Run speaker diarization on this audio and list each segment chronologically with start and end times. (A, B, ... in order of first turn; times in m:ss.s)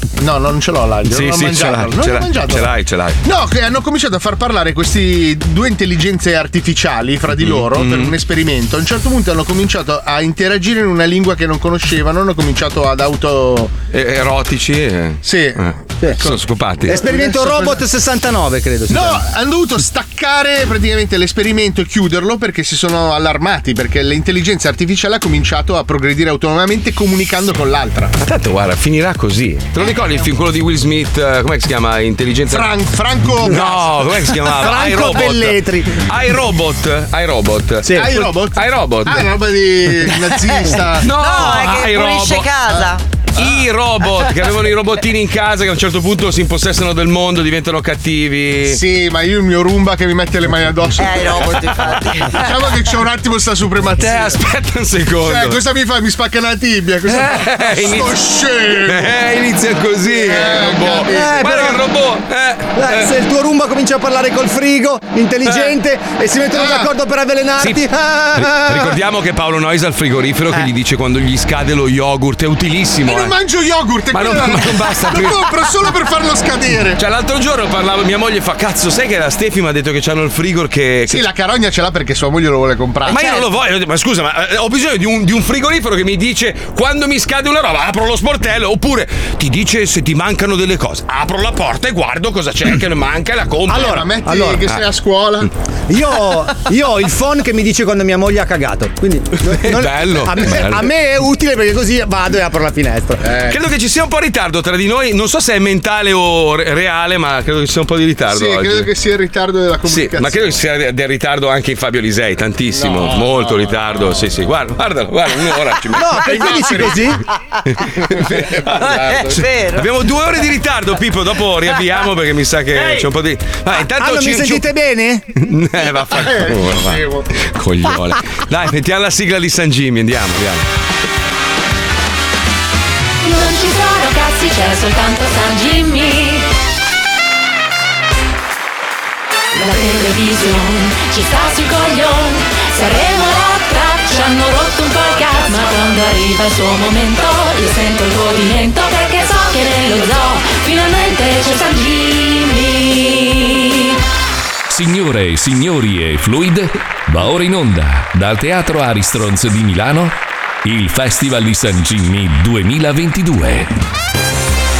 0:00.2-0:02.7 A
0:01.0-0:03.2 B
0:03.2-0:13.7 A
0:07.4-0:08.1 B
0:13.9-0:17.0 B
0:15.2-0:17.7 A
0:16.8-0:19.2 C
0:18.9-0:28.1 A
0:28.2-0:32.7 B
0:32.5-0:33.9 A
0:33.4-0:39.3 B
0:34.4-0:36.0 C
0:37.8-0:38.2 C
0:37.9-0:41.1 A
0:41.0-0:42.5 B
0:41.0-0:43.0 D
0:43.4-0:48.8 B
0:48.7-0:51.7 A
0:51.0-0:52.5 D
0:52.3-0:54.4 A
0:54.0-0:55.6 B
0:55.2-0:59.1 A
0:57.0-1:03.1 B
1:00.1-1:01.4 A
1:01.0-1:01.8 C
1:02.8-1:09.0 C
1:05.4-1:05.7 B
1:06.5-1:06.9 A
1:07.6-1:13.4 B
1:13.0-1:17.0 A
1:14.1-1:15.9 B
1:17.0-1:21.2 B
1:21.1-1:23.3 A
1:23.0-1:34.1 B
1:33.7-1:34.7 C
1:33.7-1:35.5 A
1:35.9-1:43.2 C
1:39.4-1:40.9 B
1:43.2-1:43.6 A
1:43.4-1:48.9 B
1:48.3-1:50.5 A
1:49.8-1:56.9 B
1:52.7-1:54.2 A
1:55.9-1:57.2 C
1:56.2-1:57.1 A
1:57.7-2:04.7 B
1:58.1-1:59.4 A
1:58.8-1:59.9 D
2:03.7-2:05.2 C
2:05.4-2:10.6 B
2:06.3-2:07.2 A
2:13.2-2:16.5 E
2:19.5-2:33.9 E
2:34.7-2:43.7 F